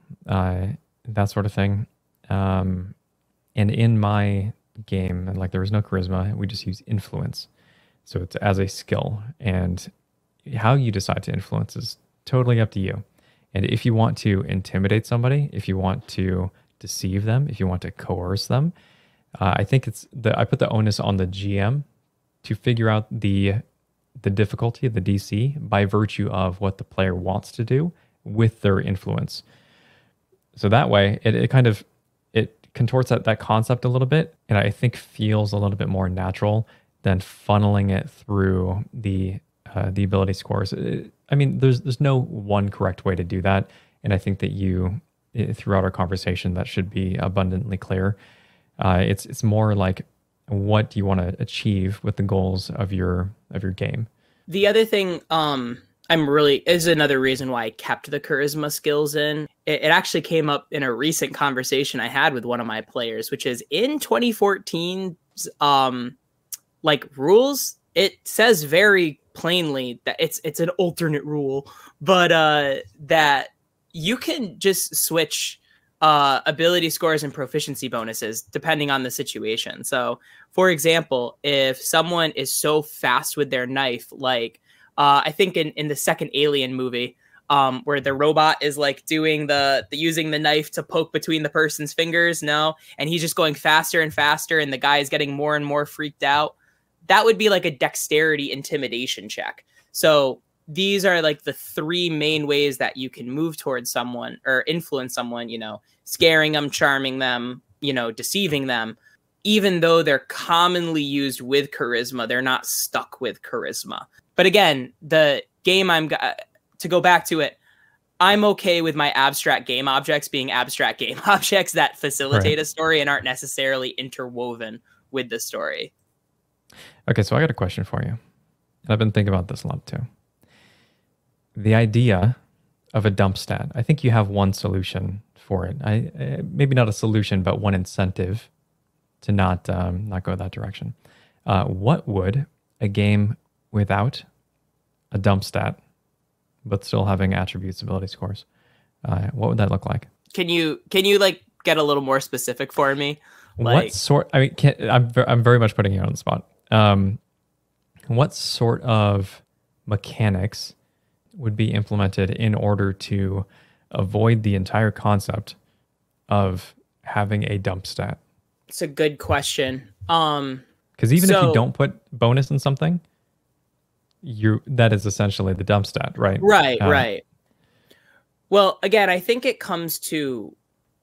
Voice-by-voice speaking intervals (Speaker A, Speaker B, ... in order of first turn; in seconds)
Speaker A: 0.3-2.9, 3.5-7.5, 8.1-9.9, 10.4-18.7, 19.4-21.8, 22.4-23.6, 24.2-29.4, 30.6-48.1, 48.8-54.1, 127.1-128.2, 128.8-130.1, 131.5-132.4, 132.9-138.5, 139.2-140.9, 141.4-144.2, 145.1-145.8, 146.6-148.4, 149.0-150.1, 153.6-157.2, 158.1-160.7, 161.4-165.6, 166.3-168.2, 171.0-173.0, 174.2-177.1
Speaker B: 54.5-66.2, 66.8-96.5, 97.1-117.6, 118.2-125.9, 150.3-153.9, 168.7-170.6, 171.2-171.6, 176.4-177.2, 178.5-180.6